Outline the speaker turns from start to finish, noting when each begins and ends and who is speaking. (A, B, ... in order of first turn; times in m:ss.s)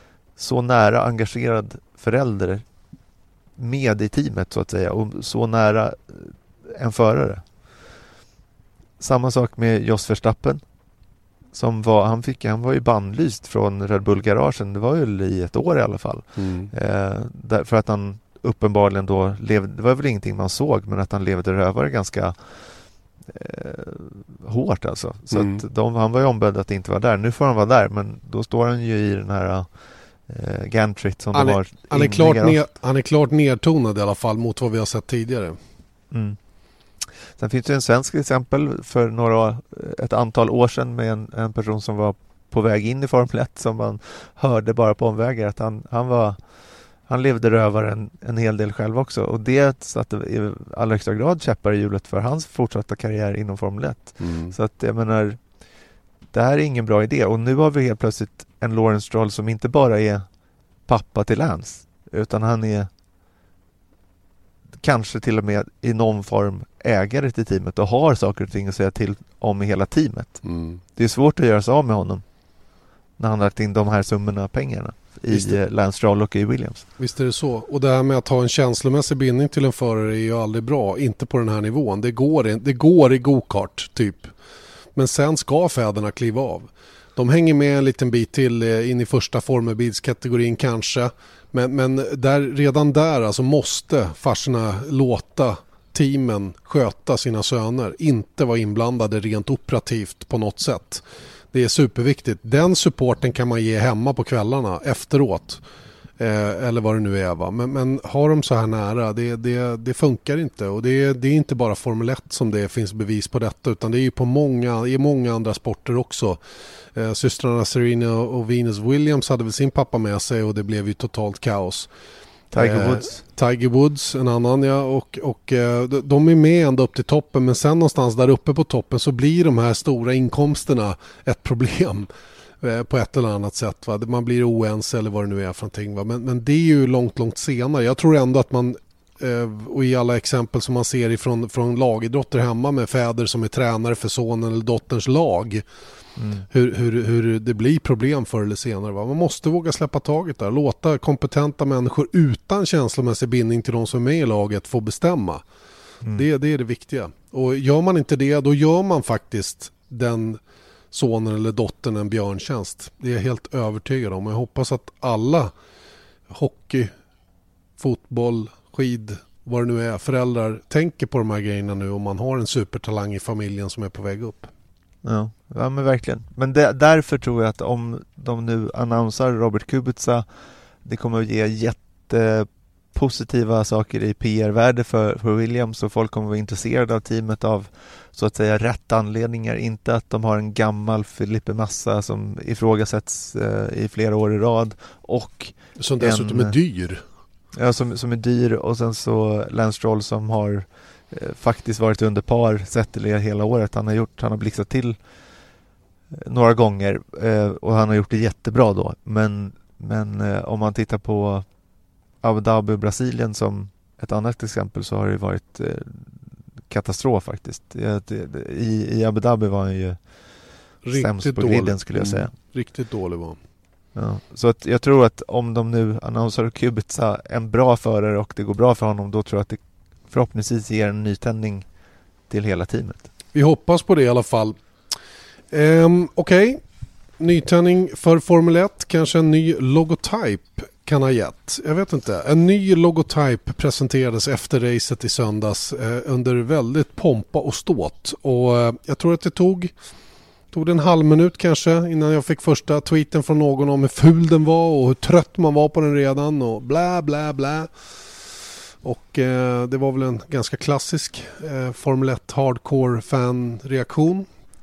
0:00.4-0:02.6 A
0:03.6-0:07.4 A
0:09.0-0:10.6 A
0:11.5-0:22.7 A
0:16.4-0:16.7 B
0:23.3-0:29.7 A
0:25.3-0:25.6 B
0:30.3-0:32.6 A
0:31.3-0:35.6 B
0:36.1-0:36.4 A
0:37.3-0:55.4 A
0:54.2-0:54.6 B
0:56.3-1:00.3 A
1:00.9-1:02.9 A
1:04.8-1:12.2 A
1:10.4-1:10.8 B
1:13.2-1:16.9 A
1:15.3-1:15.6 B
1:17.0-1:24.3 B
1:25.0-1:45.6 B
1:46.2-1:56.4 B
1:57.0-2:01.9 B
2:02.5-2:03.2 A
2:02.6-2:12.1 B
2:12.6-2:25.6 B
2:26.2-2:26.4 A
2:26.5-2:35.4 B
2:36.1-2:40.4 B
2:40.9-2:45.5 B
2:46.3-2:46.9 B
2:47.8-2:54.5 B
2:55.0-3:00.3 A
3:00.8-3:16.6 A
3:15.8-3:17.0 B
3:17.5-3:25.0 A
3:26.1-3:31.5 A
3:32.2-3:40.0 A
3:40.8-3:43.4 B
3:40.9-3:42.3 A
3:44.0-3:51.7 A
3:52.3-3:53.1 A
3:53.3-3:54.6 B
3:55.5-3:56.6 B
3:57.2-4:09.7 B
4:10.5-4:17.7 B
4:18.8-4:24.3 B